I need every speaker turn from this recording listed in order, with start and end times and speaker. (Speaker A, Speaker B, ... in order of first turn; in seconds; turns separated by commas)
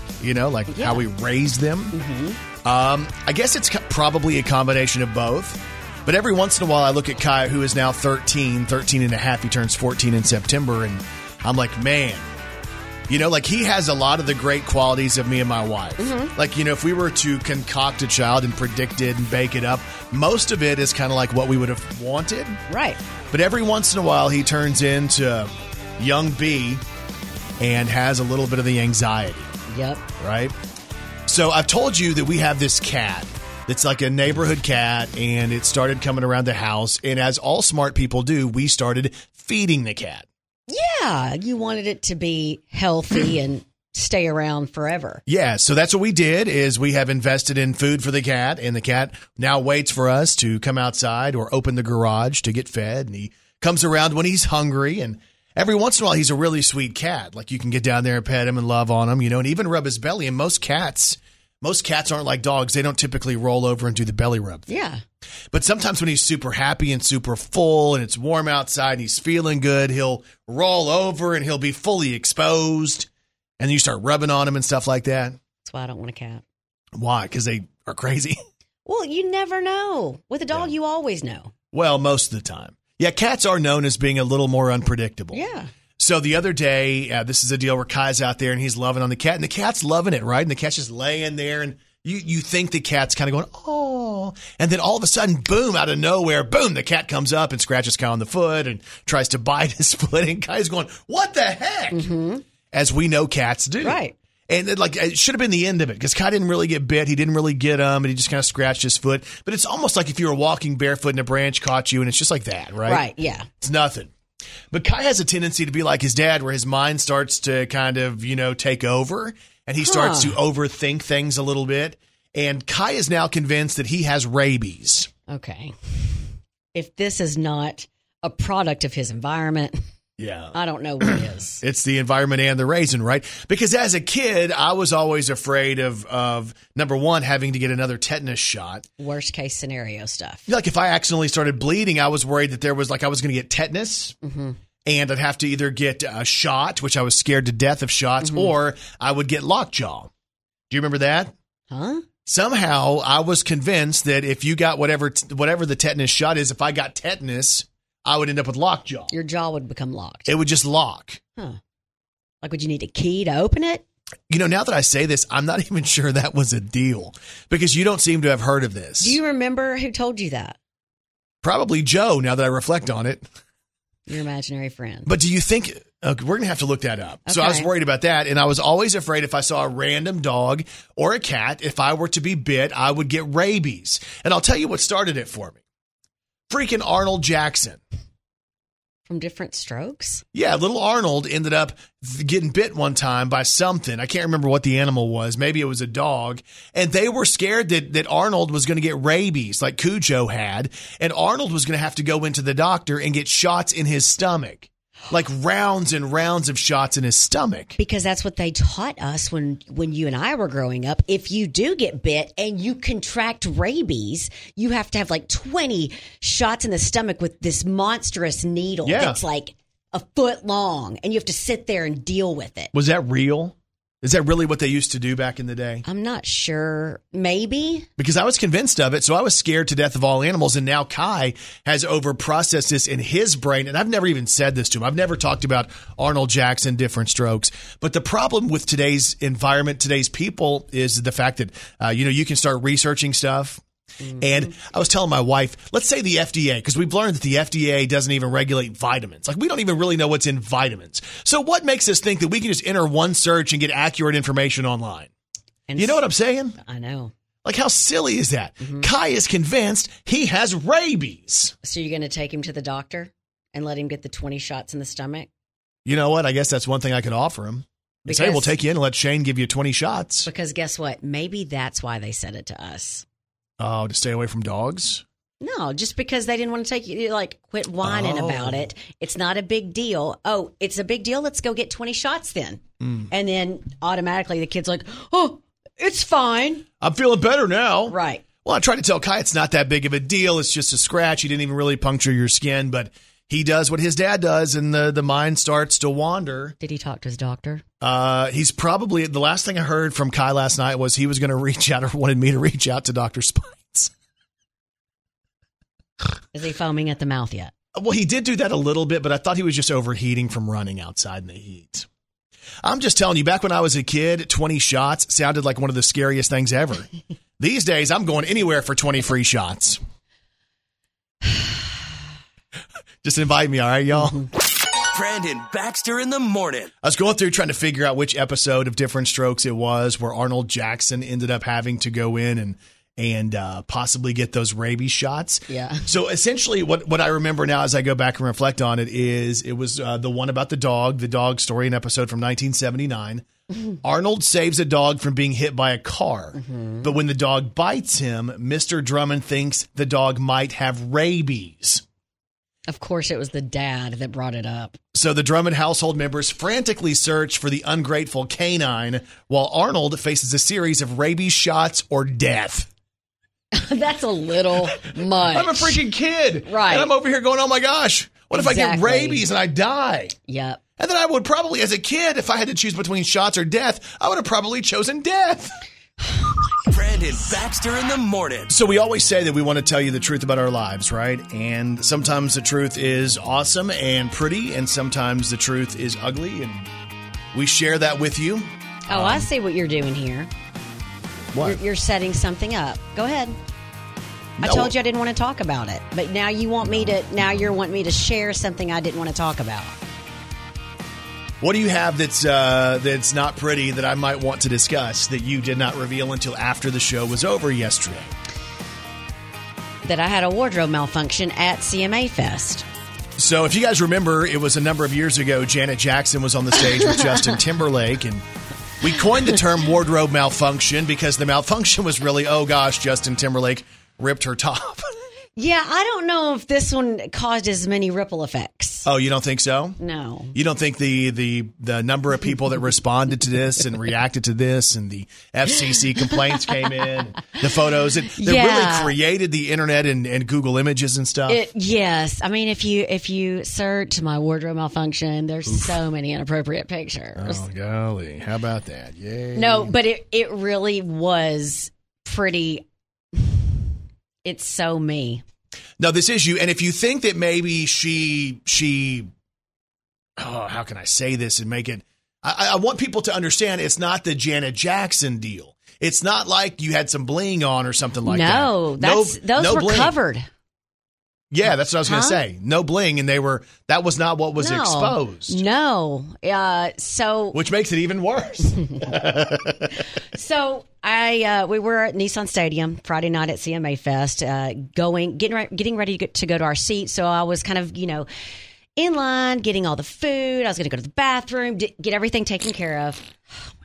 Speaker A: 0.2-2.0, Speaker B: 0.7-1.0, Speaker B: 1.9-2.4, Speaker A: 2.6-12.3, Speaker A: 13.1-22.6, Speaker B: 16.0-16.3, Speaker B: 22.7-23.0, Speaker A: 23.3-26.8, Speaker A: 27.6-29.5, Speaker B: 29.7-30.0, Speaker A: 30.2-30.6, Speaker A: 31.3-40.3, Speaker B: 40.7-45.2, Speaker A: 45.3-64.7, Speaker B: 64.7-65.0, Speaker A: 65.5-73.1, Speaker A: 73.6-75.4, Speaker B: 75.6-76.4, Speaker A: 77.0-78.4, Speaker B: 78.9-81.5, Speaker A: 81.7-85.4, Speaker B: 85.3-85.7, Speaker A: 86.0-102.1, Speaker B: 101.9-102.5, Speaker A: 102.7-113.1, Speaker B: 103.8-104.2, Speaker B: 112.9-113.5, Speaker A: 113.6-114.1, Speaker A: 114.7-125.1, Speaker B: 119.8-120.4, Speaker B: 125.3-126.0, Speaker B: 126.7-129.8, Speaker A: 130.2-138.9, Speaker B: 130.5-131.6, Speaker B: 139.0-140.5, Speaker A: 140.5-144.2, Speaker B: 144.2-144.6, Speaker A: 144.8-150.1, Speaker B: 148.2-148.5, Speaker A: 150.7-151.3, Speaker B: 151.7-152.1, Speaker A: 152.3-159.1, Speaker B: 159.1-160.3, Speaker A: 160.3-161.2, Speaker B: 162.4-163.8, Speaker A: 164.3-169.2, Speaker B: 169.0-170.6, Speaker A: 171.4-173.3, Speaker B: 174.1-175.1, Speaker A: 175.1-185.6, Speaker B: 177.3-177.7, Speaker A: 186.5-187.8, Speaker B: 189.1-190.2, Speaker A: 190.3-207.8, Speaker B: 207.8-222.7, Speaker A: 218.8-219.2, Speaker A: 222.7-225.8, Speaker B: 225.8-227.9, Speaker A: 228.0-243.6, Speaker B: 244.0-244.5, Speaker A: 244.2-255.1, Speaker B: 255.7-256.1, Speaker A: 255.8-256.6, Speaker B: 256.6-257.1, Speaker A: 257.4-261.6, Speaker B: 258.6-258.9, Speaker B: 261.6-265.3, Speaker A: 265.9-270.3, Speaker B: 268.1-268.5, Speaker B: 270.2-273.1, Speaker A: 273.6-275.0, Speaker B: 275.4-286.7, Speaker A: 277.8-278.7, Speaker A: 282.8-283.1, Speaker A: 286.8-296.6, Speaker B: 287.9-288.2, Speaker B: 296.6-297.6, Speaker A: 297.8-303.9, Speaker B: 306.3-307.5, Speaker A: 307.8-311.9, Speaker A: 312.6-319.8, Speaker A: 323.0-324.3, Speaker C: 324.9-326.7, Speaker A: 326.8-343.3, Speaker B: 335.5-335.9, Speaker A: 343.8-351.8, Speaker B: 346.4-346.9, Speaker B: 352.7-354.8, Speaker A: 354.9-362.7, Speaker B: 363.5-365.8, Speaker A: 364.8-370.2, Speaker B: 366.5-366.9, Speaker B: 368.3-369.2, Speaker B: 370.3-370.6, Speaker A: 370.8-375.6, Speaker C: 376.7-378.5, Speaker A: 378.5-386.7, Speaker A: 387.3-389.3, Speaker B: 388.9-390.3, Speaker A: 391.3-391.6, Speaker B: 391.4-393.4, Speaker A: 394.4-394.7, Speaker B: 394.4-399.8, Speaker A: 396.7-397.0, Speaker A: 401.4-408.1, Speaker B: 409.8-412.6, Speaker A: 413.2-418.2, Speaker A: 418.8-424.9, Speaker B: 425.4-428.9, Speaker A: 428.9-429.8, Speaker B: 429.8-430.4, Speaker A: 430.3-441.4, Speaker B: 438.1-438.9, Speaker B: 441.3-447.4, Speaker A: 445.5-445.8, Speaker A: 447.2-449.7, Speaker B: 449.4-453.4, Speaker B: 454.2-455.2, Speaker A: 455.8-459.1, Speaker A: 460.2-470.0, Speaker B: 468.1-470.3, Speaker A: 471.3-475.4, Speaker B: 471.9-472.2, Speaker B: 474.4-477.4, Speaker A: 477.3-479.8, Speaker B: 480.0-488.1, Speaker B: 488.8-493.5